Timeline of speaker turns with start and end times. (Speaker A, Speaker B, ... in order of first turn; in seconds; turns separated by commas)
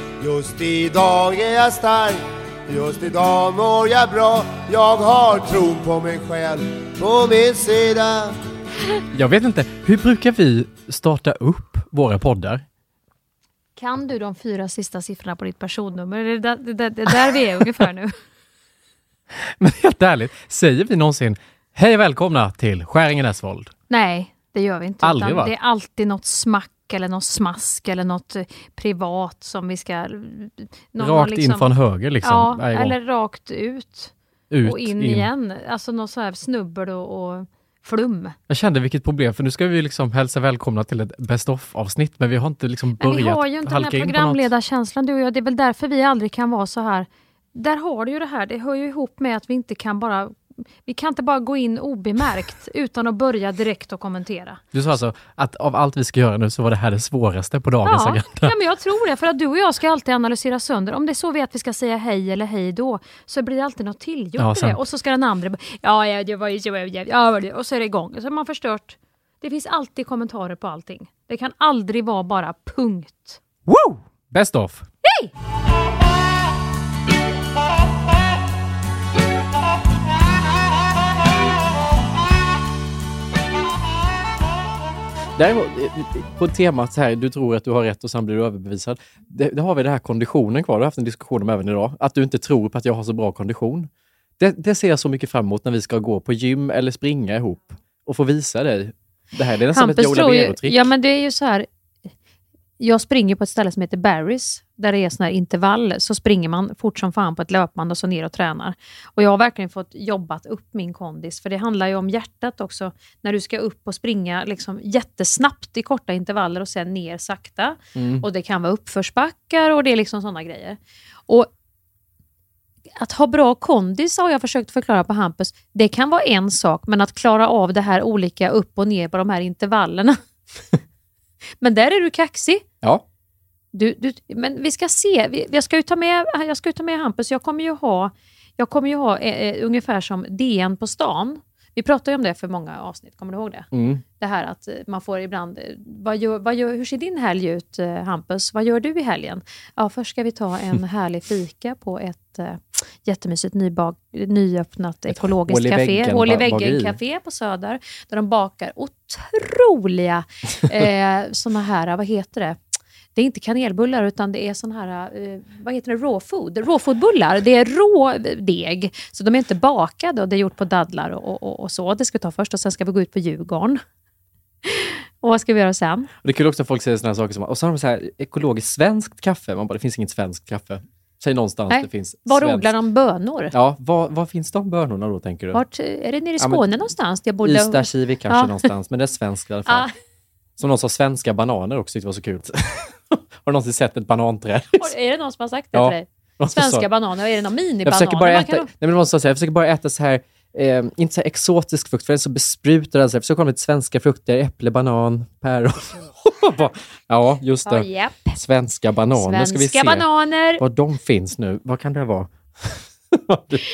Speaker A: 0.2-8.3, Speaker B: 9.1-12.6, Speaker C: 13.8-18.1, Speaker B: 19.3-23.7, Speaker C: 23.9-34.1, Speaker B: 25.0-25.5, Speaker B: 31.0-33.0, Speaker B: 34.5-35.3, Speaker C: 34.6-38.4, Speaker B: 38.5-44.5, Speaker C: 43.0-54.6, Speaker B: 54.7-58.5, Speaker C: 57.8-73.4, Speaker B: 64.4-64.8, Speaker B: 73.7-74.8, Speaker C: 75.0-75.3, Speaker B: 85.4-100.8, Speaker C: 99.7-101.7, Speaker C: 102.8-121.5, Speaker B: 117.9-118.2, Speaker C: 123.0-130.2, Speaker C: 131.6-132.6, Speaker C: 133.7-143.7, Speaker B: 143.7-144.0, Speaker C: 144.2-162.6, Speaker B: 155.1-157.0, Speaker C: 163.1-173.8, Speaker C: 174.6-176.1, Speaker B: 176.2-182.7, Speaker C: 181.7-183.5, Speaker B: 183.5-185.6, Speaker C: 185.5-188.7, Speaker B: 186.4-186.7, Speaker B: 187.4-189.8, Speaker B: 190.6-194.9, Speaker C: 194.7-198.7, Speaker B: 195.7-196.8, Speaker B: 197.8-210.1, Speaker C: 207.7-208.4, Speaker C: 209.1-210.6, Speaker B: 210.6-213.6